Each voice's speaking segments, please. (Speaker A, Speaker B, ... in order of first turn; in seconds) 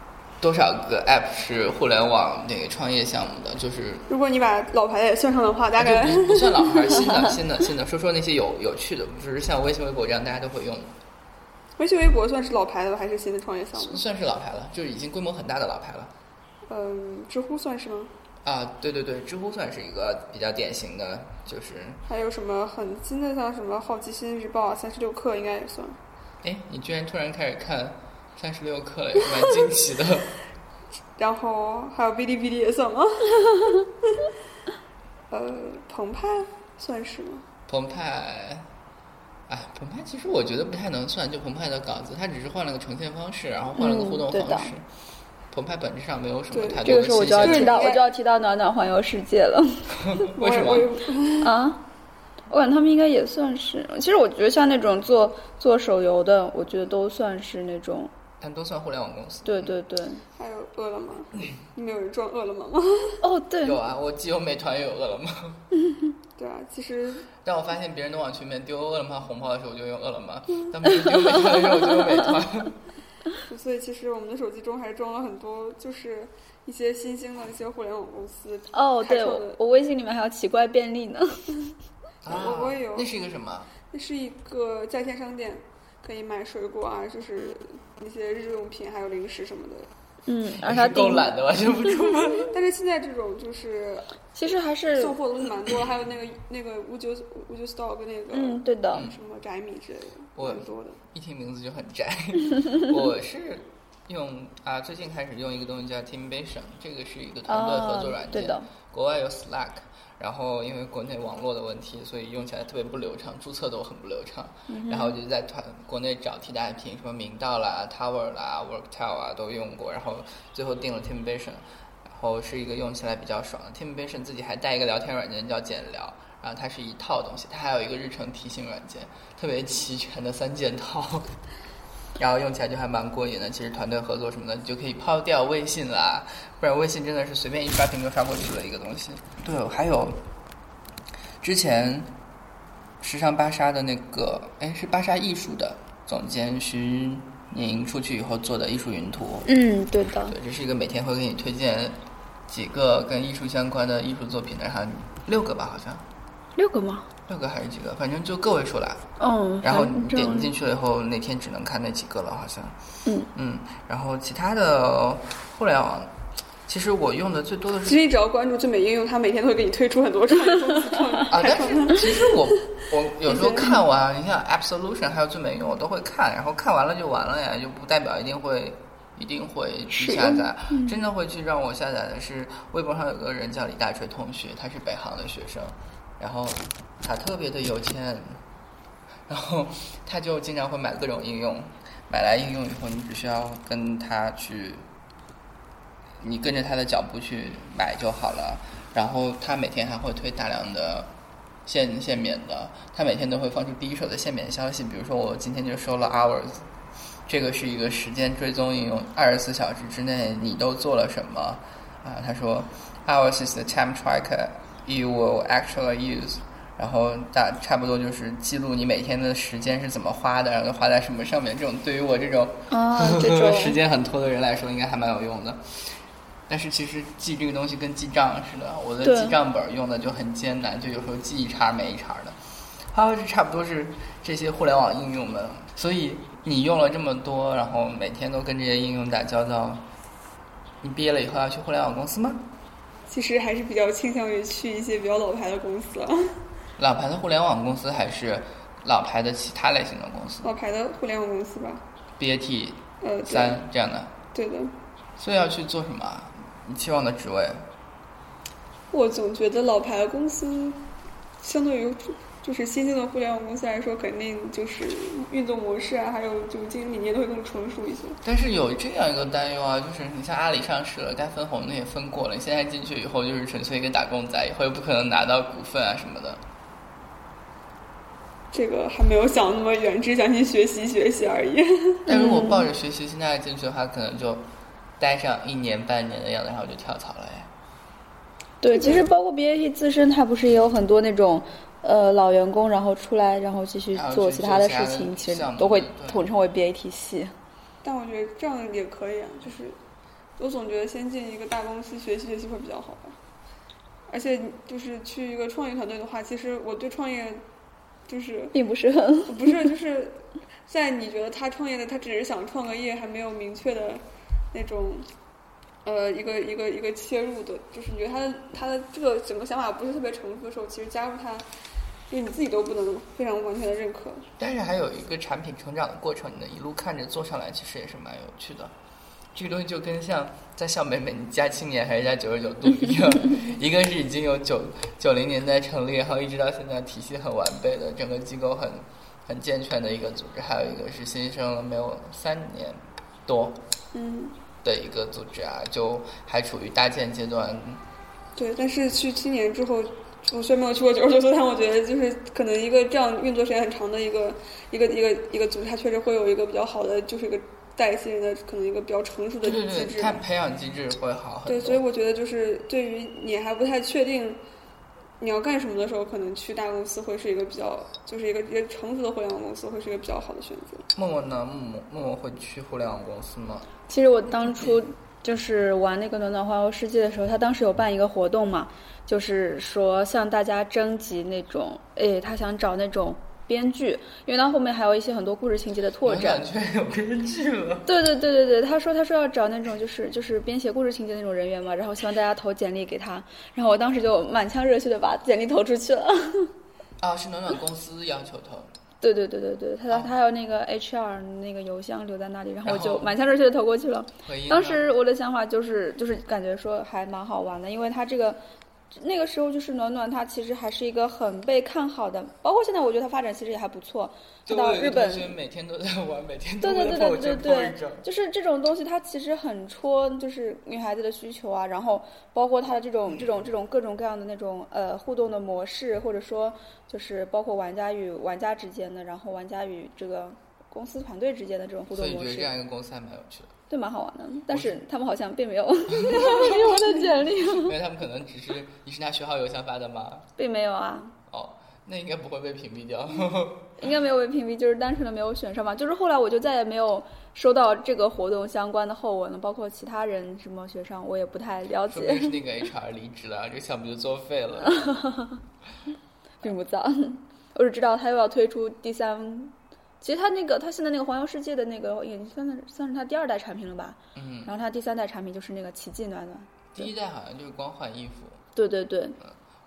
Speaker A: 0.4-4.1, 5.8-10.9, 13.7-16.1, 18.4-22.0, 26.4-30.3, 37.7-38.7, 39.5-44.8, 45.5-47.8, 50.0-50.9, 58.4-59.7, 63.6-65.6, 67.4-72.8, 82.2-83.7, 90.5-92.5, 100.3-131.3, 132.2-140.2, 141.4-142.1, 143.0-149.5, 150.3-156.0, 157.3-159.0, 159.6-162.8, 163.3-166.1, 166.7-168.0, 171.3-188.4, 189.3-194.9, 196.2-201.1, 201.7-206.7, 207.3-225.9, 226.5-232.4, 232.9-239.8, 240.8-242.4, 246.8-250.5, 252.2-254.1, 255.2-257.7, 268.2-276.4, 282.1-287.5, 293.9-296.2, 324.4-328.7, 329.3-343.6, 344.6-347.8, 359.4-361.8, 370.9-373.7, 374.5-374.8, 386.0-387.9, 397.0-398.7, 402.6-403.1, 404.2-404.8, 414.4-418.1, 431.9-433.5, 434.5-434.8, 435.9-436.8, 437.4-440.2, 441.3-443.8, 451.9-454.9, 464.1-464.5, 466.7-468.4
Speaker B: 4.1-7.2, 11.8-14.0, 16.7-18.1, 22.1-26.0, 29.3-29.6, 31.2-34.1, 35.3-37.5, 46.5-48.1, 50.3-51.5, 60.4-63.2, 66.4-67.3, 73.4-79.6, 82.2-83.1, 83.9-89.9, 92.5-101.0, 167.8-172.6, 173.3-173.6, 243.1-246.3, 250.4-251.8, 253.0-253.6, 254.3-254.7, 258.9-260.8, 261.4-268.2, 278.5-282.0, 288.7-289.1, 297.8-299.8, 300.4-303.2, 304.1-307.4, 308.1-308.6, 309.3-315.1, 315.8-321.5, 322.1-324.3, 343.9-344.3, 348.4-360.2, 361.5-364.4, 365.2-370.9
Speaker C: 43.8-44.7, 46.8-50.1, 51.4-51.9, 52.5-58.1, 59.5-60.2, 63.2-63.8, 71.0-71.6, 78.7-81.5, 90.2-91.3, 94.3-95.2, 98.3-99.1, 107.5-108.7, 114.7-115.2, 149.4-150.3, 156.6-157.1, 159.2-160.5, 179.9-181.0, 222.7-223.8, 229.0-229.3, 282.1-282.7, 288.6-297.3, 308.5-309.6, 373.9-386.4, 387.9-396.5, 399.0-408.4, 408.9-415.4, 416.6-432.5, 433.7-437.8, 440.4-441.1, 443.8-452.4, 454.6-455.4, 456.4-466.9, 468.5-469.2